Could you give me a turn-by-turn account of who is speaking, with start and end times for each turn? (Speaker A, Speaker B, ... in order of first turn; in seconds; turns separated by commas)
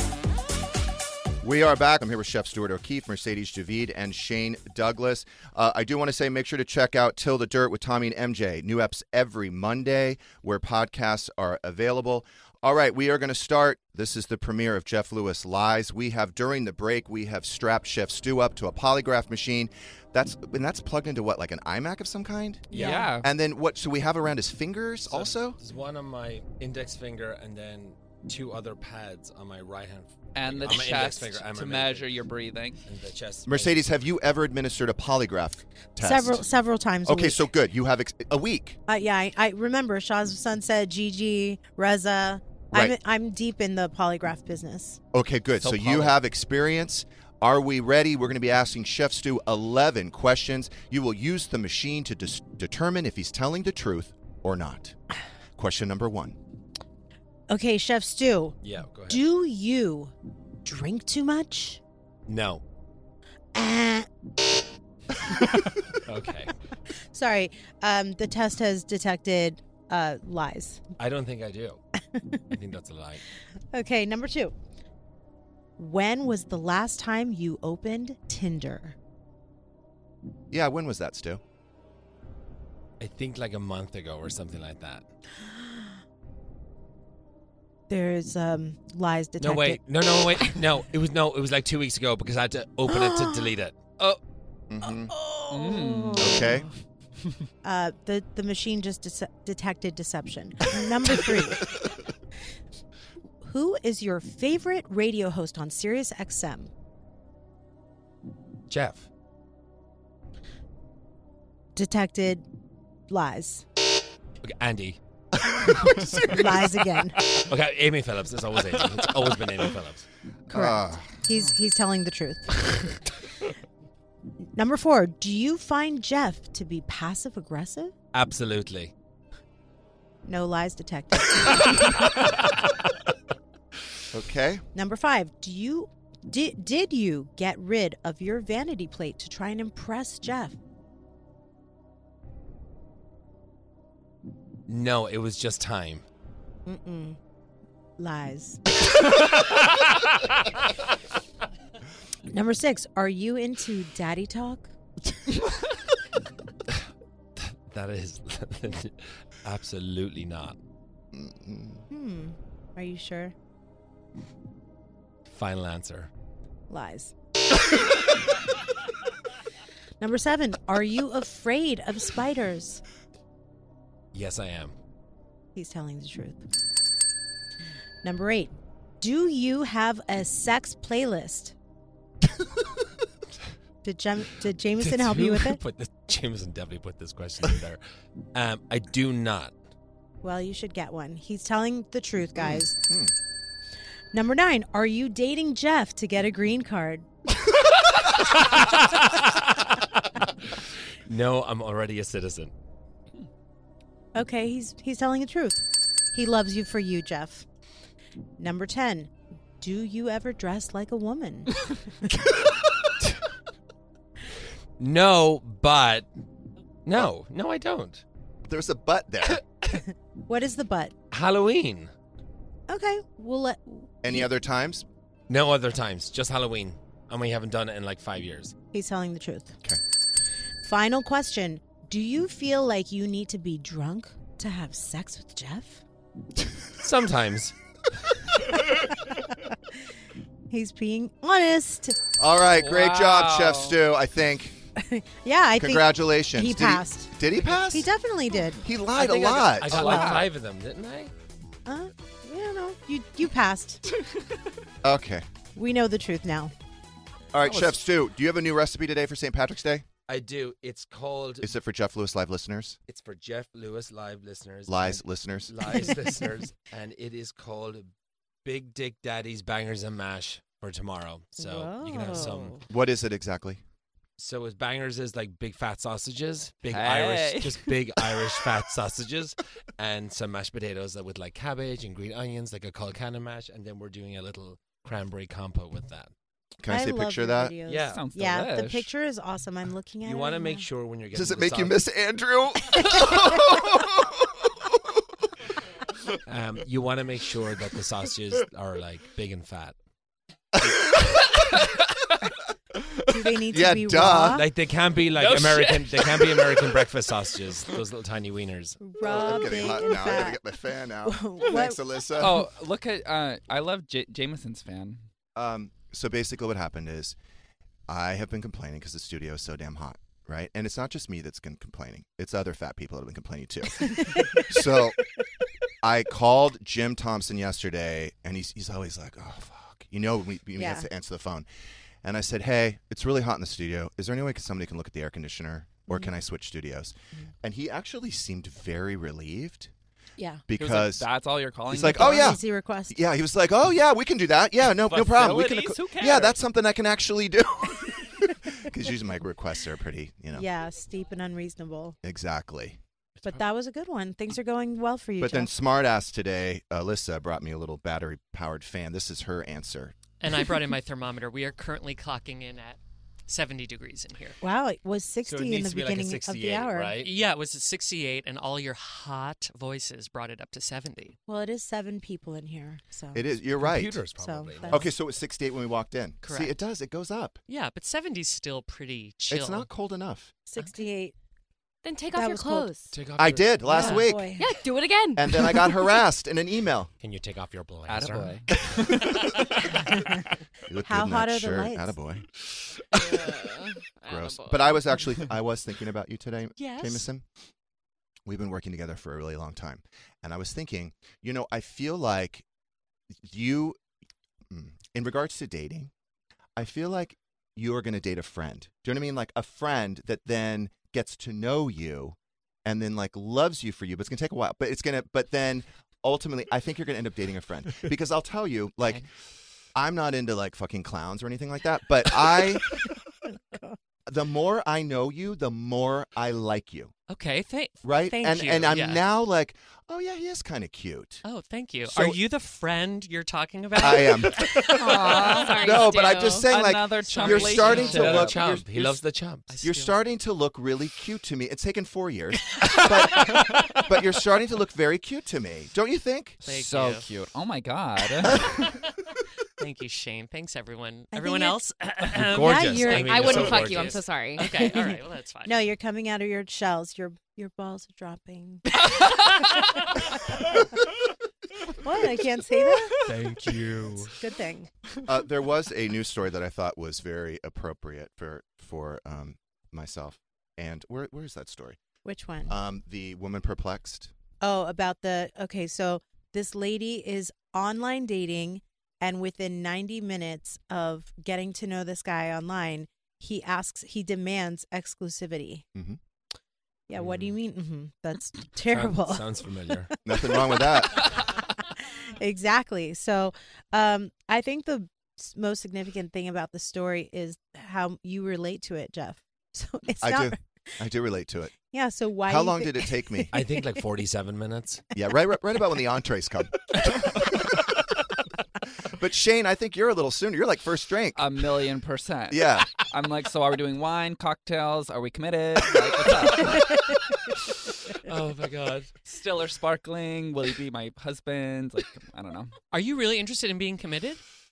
Speaker A: 1.4-25.6, Speaker B: 22.7-23.1, Speaker C: 22.7-23.1, Speaker D: 22.8-23.3, Speaker B: 25.1-32.1, Speaker D: 30.4-32.8, Speaker B: 32.9-33.9, Speaker A: 33.5-36.5, Speaker C: 36.0-37.5, Speaker A: 37.0-38.8, Speaker C: 38.9-45.0, Speaker A: 45.1-55.0, Speaker B: 45.6-46.2, Speaker A: 55.6-56.4, Speaker C: 57.5-58.6, Speaker B: 58.6-59.2, Speaker C: 59.1-60.1, Speaker C: 60.6-61.8, Speaker B: 62.3-62.6, Speaker C: 63.5-64.1, Speaker B: 66.0-66.5, Speaker C: 67.1-70.8, Speaker B: 71.0-71.8, Speaker C: 72.1-72.4, Speaker B: 72.5-73.2, Speaker C: 73.7-74.5, Speaker C: 75.8-79.0, Speaker A: 80.5-81.4, Speaker B: 83.0-85.1, Speaker C: 85.5-85.8, Speaker C: 87.9-89.8, Speaker B: 89.4-93.8, Speaker C: 92.9-93.5, Speaker A: 94.7-95.1, Speaker C: 95.1-96.6, Speaker D: 95.5-96.6, Speaker A: 96.2-96.7, Speaker C: 97.6-101.7, Speaker C: 103.4-106.7, Speaker B: 108.7-109.1, Speaker C: 111.8-112.5, Speaker C: 113.1-113.7, Speaker B: 114.4-115.0, Speaker B: 115.7-116.2, Speaker C: 116.2-117.2, Speaker B: 117.3-120.0, Speaker A: 120.5-121.1, Speaker C: 120.5-122.6, Speaker C: 124.6-127.9, Speaker B: 128.1-128.9, Speaker C: 130.2-131.6, Speaker A: 134.1-134.7, Speaker C: 134.7-140.6, Speaker B: 144.7-146.1, Speaker C: 146.7-147.2, Speaker C: 148.0-148.6, Speaker C: 152.3-154.7, Speaker B: 157.4-160.6, Speaker A: 161.1-161.8, Speaker C: 161.9-163.3, Speaker B: 165.3-166.1, Speaker C: 166.7-167.1, Speaker C: 170.0-172.8, Speaker B: 174.1-174.7, Speaker C: 175.6-176.4, Speaker C: 178.0-181.6, Speaker C: 183.8-185.6, Speaker B: 184.8-187.8, Speaker B: 188.3-189.5, Speaker C: 190.2-192.8, Speaker A: 192.9-193.1, Speaker C: 194.1-197.1, Speaker B: 201.1-202.5, Speaker C: 204.2-207.5, Speaker C: 208.4-212.1, Speaker B: 214.8-216.1, Speaker B: 216.9-218.0, Speaker A: 218.4-219.4, Speaker C: 219.7-220.9, Speaker B: 221.1-221.9, Speaker C: 222.7-224.0, Speaker A: 224.0-224.8, Speaker B: 225.3-228.5, Speaker C: 228.7-229.6, Speaker C: 230.6-235.8, Speaker B: 236.8-237.6, Speaker C: 240.5-242.0, Speaker A: 242.2-244.6, Speaker D: 242.6-243.8, Speaker C: 244.8-247.1, Speaker A: 245.6-247.9, Speaker C: 247.7-248.6, Speaker A: 248.6-249.9, Speaker B: 248.9-251.1, Speaker D: 249.7-250.3, Speaker C: 249.7-250.2, Speaker C: 251.7-253.8, Speaker A: 254.8-255.3, Speaker C: 255.6-256.5, Speaker A: 257.3-259.9, Speaker B: 260.1-261.5, Speaker A: 261.4-262.8, Speaker B: 262.9-267.9, Speaker A: 264.7-265.6, Speaker B: 268.4-272.6, Speaker C: 271.4-272.6, Speaker A: 272.7-273.6, Speaker B: 274.2-286.1, Speaker D: 276.7-278.2, Speaker A: 286.6-287.6, Speaker C: 286.7-290.7, Speaker B: 287.7-288.0, Speaker D: 287.9-288.9, Speaker B: 290.0-291.8, Speaker A: 291.1-294.8, Speaker C: 292.9-293.3, Speaker B: 296.3-299.8, Speaker A: 300.6-301.2, Speaker C: 303.1-304.4, Speaker A: 303.5-304.4, Speaker B: 304.3-308.8, Speaker D: 305.1-306.6, Speaker C: 308.8-310.4, Speaker A: 309.0-312.5, Speaker C: 311.0-311.8, Speaker D: 312.2-315.0, Speaker A: 315.4-317.2, Speaker A: 317.9-325.0, Speaker C: 323.9-324.5, Speaker A: 325.8-331.5, Speaker C: 330.6-330.9, Speaker A: 332.0-339.7, Speaker C: 340.2-340.4, Speaker A: 340.5-341.1, Speaker D: 340.6-342.4, Speaker A: 341.7-350.5, Speaker C: 341.9-343.0, Speaker D: 344.9-346.4, Speaker C: 350.3-352.0, Speaker A: 352.0-352.8, Speaker C: 353.2-355.5, Speaker A: 355.2-360.0, Speaker E: 360.2-364.4, Speaker C: 364.4-366.9, Speaker B: 365.3-367.1, Speaker E: 367.0-371.2, Speaker C: 371.3-373.2, Speaker A: 373.1-374.1, Speaker B: 373.6-374.9, Speaker C: 374.2-374.9, Speaker A: 374.7-377.4, Speaker E: 376.2-376.6, Speaker E: 377.5-379.7, Speaker A: 379.3-380.3, Speaker C: 380.5-381.1, Speaker F: 381.8-383.0, Speaker C: 382.1-382.7, Speaker B: 382.9-383.6, Speaker A: 383.2-384.4, Speaker C: 383.7-384.5, Speaker E: 383.8-384.0, Speaker F: 383.8-385.9, Speaker A: 385.1-386.9, Speaker B: 387.0-388.7, Speaker D: 387.9-389.1, Speaker A: 390.7-392.3, Speaker C: 390.9-391.9, Speaker F: 393.0-394.9, Speaker A: 394.1-397.2, Speaker E: 396.6-397.1, Speaker A: 398.2-402.4, Speaker A: 403.1-403.8, Speaker A: 404.5-405.9, Speaker A: 406.6-419.1, Speaker A: 419.8-422.9, Speaker A: 424.1-426.9, Speaker E: 427.1-429.1, Speaker A: 427.8-431.2, Speaker E: 431.2-435.5, Speaker A: 431.9-432.2, Speaker A: 433.8-435.0, Speaker D: 434.6-435.7, Speaker F: 435.1-436.6, Speaker A: 435.5-439.0, Speaker D: 436.5-438.6, Speaker E: 437.1-438.0, Speaker B: 437.4-439.5, Speaker E: 439.5-440.0, Speaker A: 439.6-446.4, Speaker D: 446.4-448.7, Speaker E: 446.4-447.1, Speaker E: 449.6-455.7, Speaker C: 451.1-451.6, Speaker B: 452.1-454.0, Speaker C: 452.3-453.3, Speaker F: 452.9-454.8, Speaker C: 454.4-460.6, Speaker C: 461.7-462.9, Speaker B: 463.1-464.1, Speaker C: 464.1-464.7, Speaker A: 465.1-471.8, Speaker C: 472.1-472.5, Speaker A: 472.5-474.1, Speaker C: 474.4-485.6, Speaker C: 486.9-489.3, Speaker B: 486.9-487.4, Speaker B: 488.7-489.9, Speaker A: 490.1-491.1, Speaker C: 491.6-500.4, Speaker A: 500.0-501.6, Speaker C: 501.7-503.8, Speaker A: 502.3-503.3, Speaker B: 503.3-504.8, Speaker A: 504.9-507.5, Speaker A: 508.9-511.2, Speaker D: 511.2-517.0, Speaker A: 512.3-512.7, Speaker B: 518.1-518.9, Speaker D: 519.0-522.5, Speaker E: 522.7-524.2